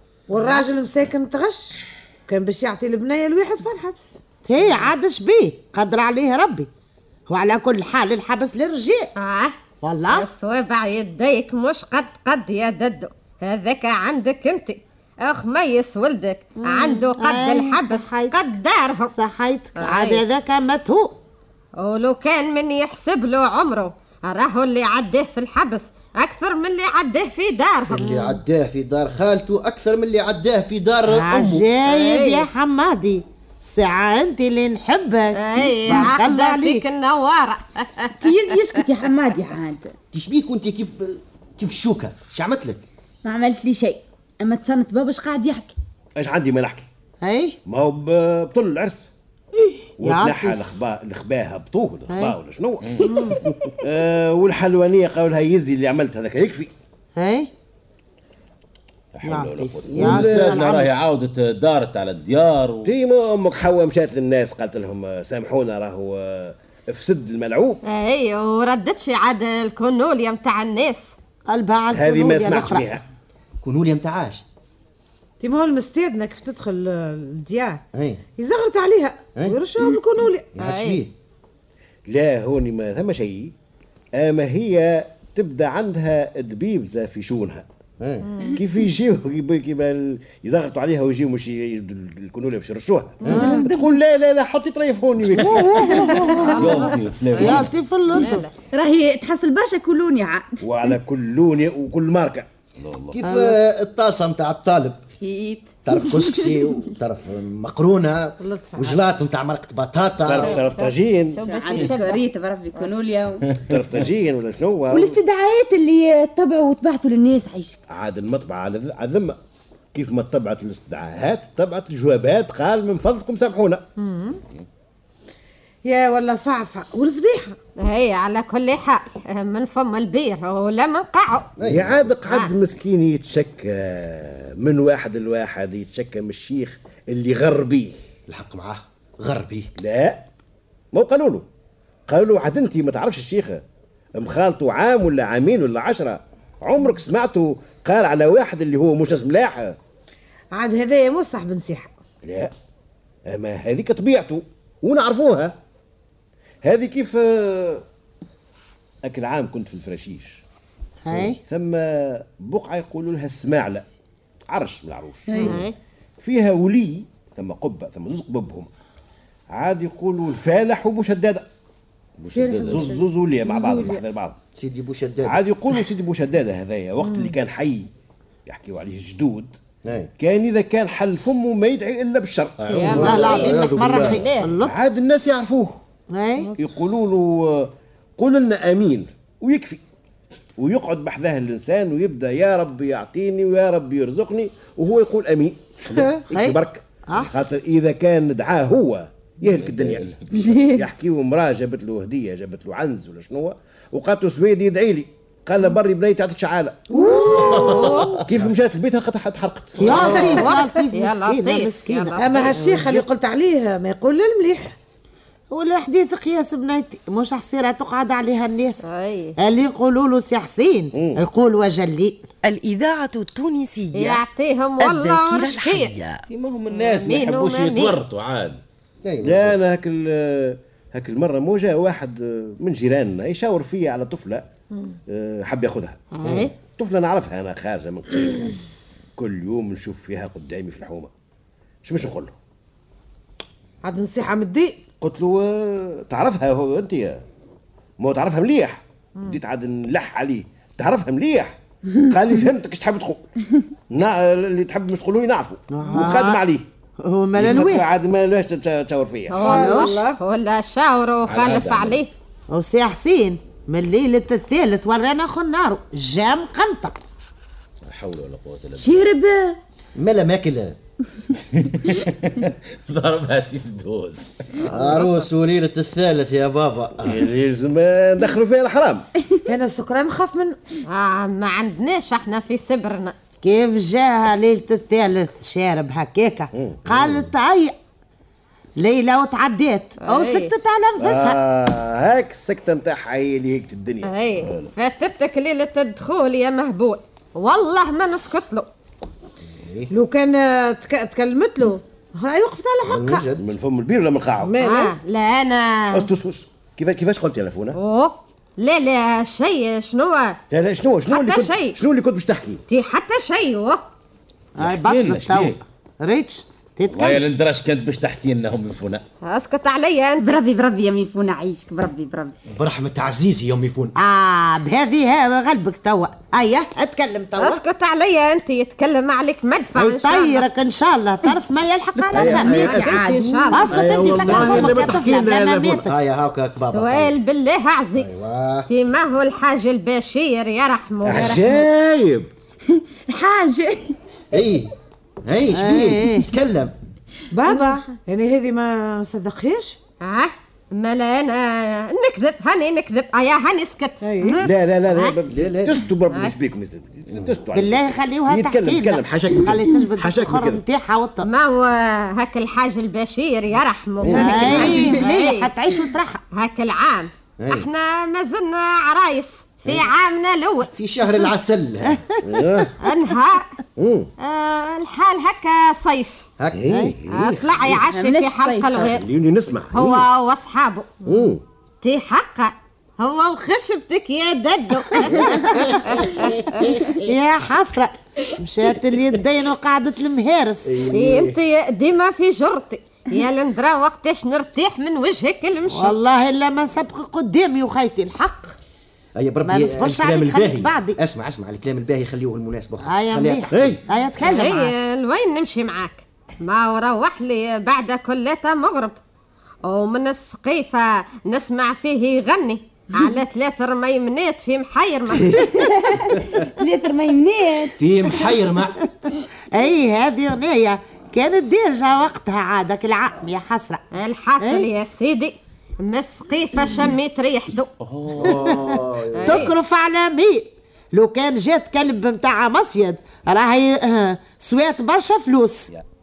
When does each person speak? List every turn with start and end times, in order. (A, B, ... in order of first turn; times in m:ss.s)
0:00.3-0:04.2 A
0:04.4-0:06.7 B
0:07.3-0:09.1 B
0:09.2-0:09.6 C
0:09.8-0:10.3 B
0:10.1-0:19.1 C
0:16.6-0:18.3 B
0:19.1-0:21.2 B
0:19.8-0:20.2 C
0:21.8-0:28.2 C
0:27.9-0:31.6 D
0:31.0-0:36.8 B
0:31.8-0:32.5 C
0:35.3-0:38.7 C
0:38.2-0:39.9 E
0:40.1-0:42.8 D
0:43.2-0:45.7 E
0:46.2-0:46.8 F
0:47.2-0:47.6 B
0:47.6-0:49.1 F
0:50.0-0:50.7 B
0:50.0-0:53.1 F
0:52.1-0:52.4 B
0:52.8-0:53.3 G
0:53.1-0:53.4 A
0:53.8-0:56.7 F
0:57.2-0:57.5 B
0:59.1-1:02.9 G
0:59.2-1:00.9 B
0:59.9-1:00.6 F
1:02.8-1:07.8 F
1:07.8-1:11.1 C
1:11.5-1:12.9 B
1:11.9-1:13.0 F
1:13.6-1:14.4 D
1:15.4-1:17.8 A
1:17.9-1:18.2 D
1:18.3-1:20.5 A
1:20.6-1:21.1 D
1:20.6-1:21.0 C
1:22.1-1:23.5 F
1:24.2-1:27.6 F
1:28.0-1:28.3 D
1:28.2-1:28.6 A
1:28.5-1:36.6 F
1:33.2-1:33.5 D
1:33.2-1:33.7 A
1:33.3-1:33.6 B
1:35.2-1:35.9 G
1:35.5-1:36.5 B
1:35.9-1:36.6 A
1:36.1-1:37.6 C
1:36.4-1:37.7 G
1:37.3-1:38.4 B
1:38.1-1:38.5 C
1:38.7-1:40.6 E
1:40.6-1:42.5 F
1:42.8-1:43.2 G
1:43.1-1:45.0 D
1:43.2-1:43.6 B
1:45.2-1:46.9 E
1:45.8-1:50.6 D
1:48.4-1:49.0 A
1:50.2-1:51.4 F
1:50.4-1:52.2 C
1:51.4-1:53.4 E
1:53.5-1:54.0 G
1:53.6-1:55.2 F
1:54.9-1:57.8 E
1:57.9-1:59.4 F
1:59.9-2:03.8 F
2:04.0-2:04.4 A
2:05.8-2:07.5 A
2:07.8-2:11.5 C
2:11.6-2:12.0 D
2:11.6-2:18.0 F
2:18.3-2:19.7 D
2:19.8-2:20.2 F
2:20.9-2:21.4 F
2:22.1-2:23.6 F
2:24.1-2:29.8 F
2:30.5-2:31.9 A
2:32.2-2:32.5 F
2:33.3-2:35.6 F
2:36.6-2:37.8 F
2:39.0-2:40.4 F
2:41.0-2:41.4 B
2:41.1-2:43.8 F
2:44.5-2:45.6 F
2:45.3-2:45.6 E
2:45.4-2:45.7 C
2:46.2-2:48.7 F
2:49.5-2:51.4 F
2:52.2-2:53.0 G
2:52.6-2:54.4 F
2:54.5-2:55.4 D
2:55.2-2:57.9 F
2:57.0-2:57.3 A
2:58.5-2:59.5 F
2:59.8-3:00.1 D
3:00.2-3:03.4 F
3:02.6-3:02.9 G
3:02.7-3:04.3 D
3:02.7-3:04.5 C
3:02.8-3:04.8 B
3:04.6-3:05.8 F
3:06.1-3:06.5 B
3:06.5-3:09.8 F
3:10.6-3:30.2 F
3:15.9-3:16.2 A
3:16.3-3:17.4 B
3:19.4-3:20.5 G
3:20.6-3:20.8 E
3:26.9-3:28.2 A
3:27.3-3:28.2 G
3:29.8-3:33.0 B
3:29.8-3:32.5 C
3:29.9-3:30.5 A
3:32.2-3:34.7 A
3:35.5-3:38.9 B
3:38.8-3:39.4 C
3:39.4-3:42.2 B
3:40.9-3:41.2 F
3:42.4-3:44.2 H
3:43.9-3:45.9 C
3:44.8-3:46.2 H
3:46.3-3:48.6 G
3:46.7-3:48.0 C
3:49.0-3:49.6 D
3:49.2-3:54.4 F
3:55.1-3:56.1 F
3:56.2-3:56.5 B
3:56.2-3:56.5 D
3:56.6-3:58.6 F
3:59.2-4:01.1 F
4:01.8-4:02.3 F
4:03.8-4:04.8 A
4:05.0-4:07.2 F
4:08.0-4:13.3 F
4:13.9-4:16.6 F
4:15.7-4:16.4 B
4:17.0-4:17.8 B
4:17.3-4:19.5 F
4:19.3-4:22.1 C
4:19.4-4:20.2 A
4:19.4-4:20.0 B
4:21.2-4:22.0 G
4:22.5-4:27.0 B
4:27.8-4:29.0 G
4:28.8-4:29.6 E
4:30.0-4:30.8 D
4:31.4-4:34.7 G
4:34.7-4:37.2 D
4:37.0-4:39.0 F
4:39.4-4:40.6 A
4:40.9-4:43.1 C
4:43.4-4:47.7 B
4:46.5-4:46.8 F
4:48.8-4:51.4 B
4:50.0-4:50.5 C
4:51.0-4:54.1 F
4:54.0-4:58.7 C
4:54.4-4:54.7 G
4:59.5-4:59.9 D
4:59.9-5:03.2 A
5:02.8-5:03.4 D
5:03.4-5:04.5 F
5:04.4-5:04.9 A
5:04.6-5:06.1 C
5:05.9-5:07.8 F
5:07.7-5:10.4 C
5:10.5-5:12.6 F
5:11.1-5:11.8 C
5:12.7-5:13.8 C
5:14.6-5:17.2 B
5:14.6-5:15.6 G
5:16.9-5:19.0 G
5:19.2-5:20.3 C
5:20.2-5:22.3 E
5:22.5-5:23.9 D
5:24.0-5:27.6 B
5:27.4-5:30.4 C
5:29.8-5:32.8 B
5:32.1-5:33.6 E
5:32.1-5:33.0 F
5:32.4-5:34.6 C
5:33.5-5:35.9 B
5:33.7-5:35.9 F
5:34.2-5:35.0 D
5:35.8-5:37.1 D
5:36.7-5:41.5 C
5:38.0-5:38.7 D
5:41.0-5:42.3 F
5:43.1-5:43.9 E
5:44.3-5:44.7 D
5:45.2-5:46.7 D
5:45.5-5:46.3 B
5:47.3-5:49.8 A
5:50.0-5:55.1 C
5:54.0-5:54.4 A
5:54.4-6:00.6 F
5:55.3-5:55.8 D
5:57.1-5:57.4 D
5:57.5-6:01.3 B
6:01.2-6:05.5 C
6:04.1-6:04.9 A
6:04.1-6:06.2 B
6:04.5-6:05.0 E
6:06.3-6:10.7 C
6:07.4-6:07.7 D
6:10.7-6:12.1 D
6:12.2-6:12.8 F
6:12.8-6:13.5 C
6:13.8-6:14.1 F
6:14.2-6:16.2 C
6:16.4-6:16.7 D
6:16.5-6:17.7 F
6:16.7-6:17.0 B
6:17.1-6:19.0 C
6:17.7-6:18.9 E
6:18.8-6:20.0 F
6:19.7-6:20.9 C
6:21.0-6:21.4 F
6:21.8-6:26.6 C
6:24.9-6:30.8 B
6:30.6-6:31.4 D
6:30.9-6:35.9 C
6:35.7-6:38.6 B
6:39.2-6:43.8 D
6:39.4-6:41.0 B
6:42.8-6:44.7 B
6:43.5-6:43.8 F
6:44.2-6:49.0 C
6:49.6-6:55.5 C
6:55.5-6:57.8 E
6:57.8-6:58.8 D
6:59.5-7:03.8 B
7:03.9-7:07.7 C
7:04.4-7:04.7 B
7:07.8-7:08.6 G
7:08.2-7:09.5 D
7:08.3-7:15.7 B
7:09.1-7:09.5 C